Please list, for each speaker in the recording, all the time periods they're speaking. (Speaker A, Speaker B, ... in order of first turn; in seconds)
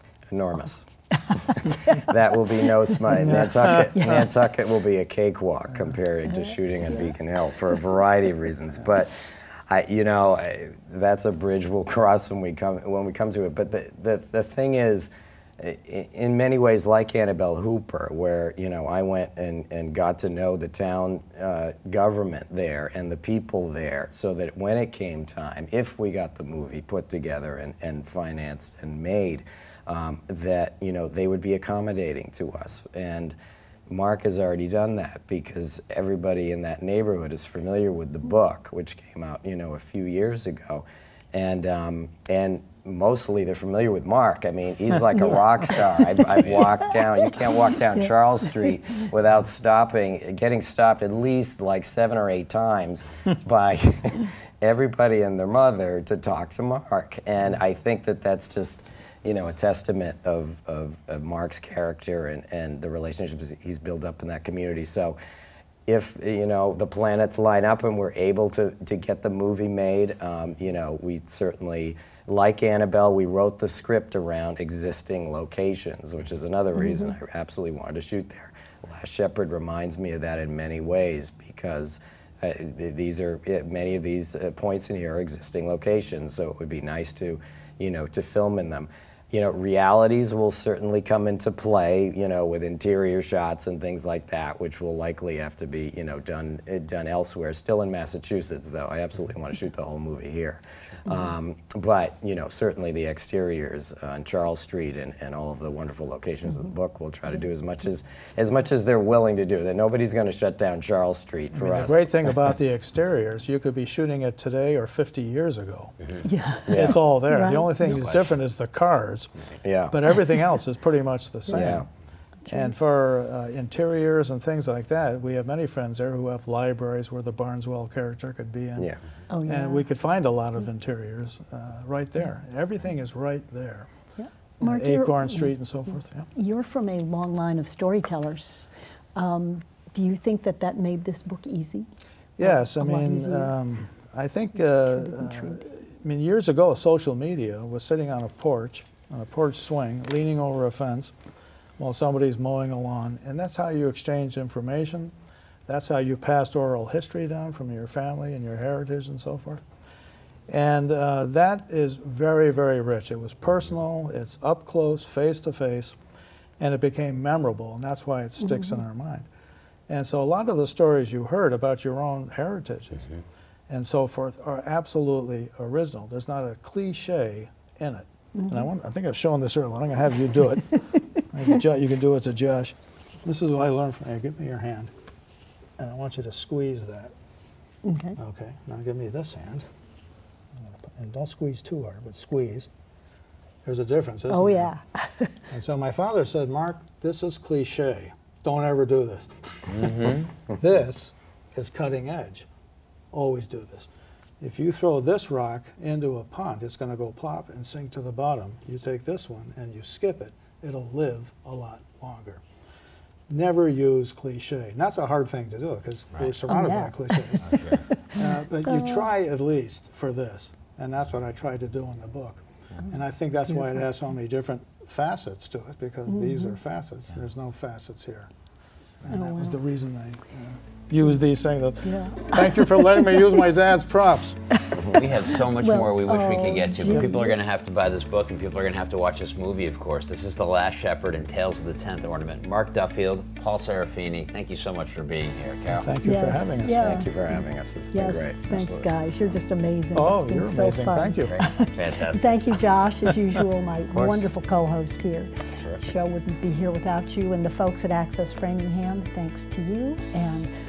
Speaker A: 0.3-33.3, 33.9-65.2, 65.8-112.1, 116.7-117.0, 119.6-120.0, 121.5-121.8, 246.7-248.9, 253.9-254.3
Speaker B: 1.5-2.0, 3.3-4.2, 6.3-7.1, 116.2-117.7, 121.5-121.8, 129.3-129.8, 134.2-135.5, 136.3-141.9, 142.4-143.5, 144.6-145.6, 168.4-168.8, 178.3-178.7, 187.8-188.2, 194.3-195.4, 216.5-219.1, 223.5-223.9, 226.1-226.6, 229.0-229.6, 231.8-233.6, 235.6-237.4, 246.0-247.4, 247.9-260.5
Speaker C: 3.3-3.9, 111.5-116.0, 116.7-119.3, 119.9-121.8, 122.5-128.9, 129.4-133.9, 134.6-136.3, 142.4-151.1, 151.8-155.1, 155.7-159.6, 160.5-165.9, 166.6-169.2, 169.9-173.1, 173.7-184.9, 185.8-187.1, 188.2-189.7, 190.7-192.7, 193.6-194.7, 195.5-202.4, 203.1-203.9, 204.4-212.4, 213.3-228.3, 229.0-234.4, 245.8-246.9, 249.9-251.4
Speaker D: 46.4-46.7, 117.8-118.3, 199.7-200.3, 217.4-217.8, 234.8-245.9, 251.2-252.4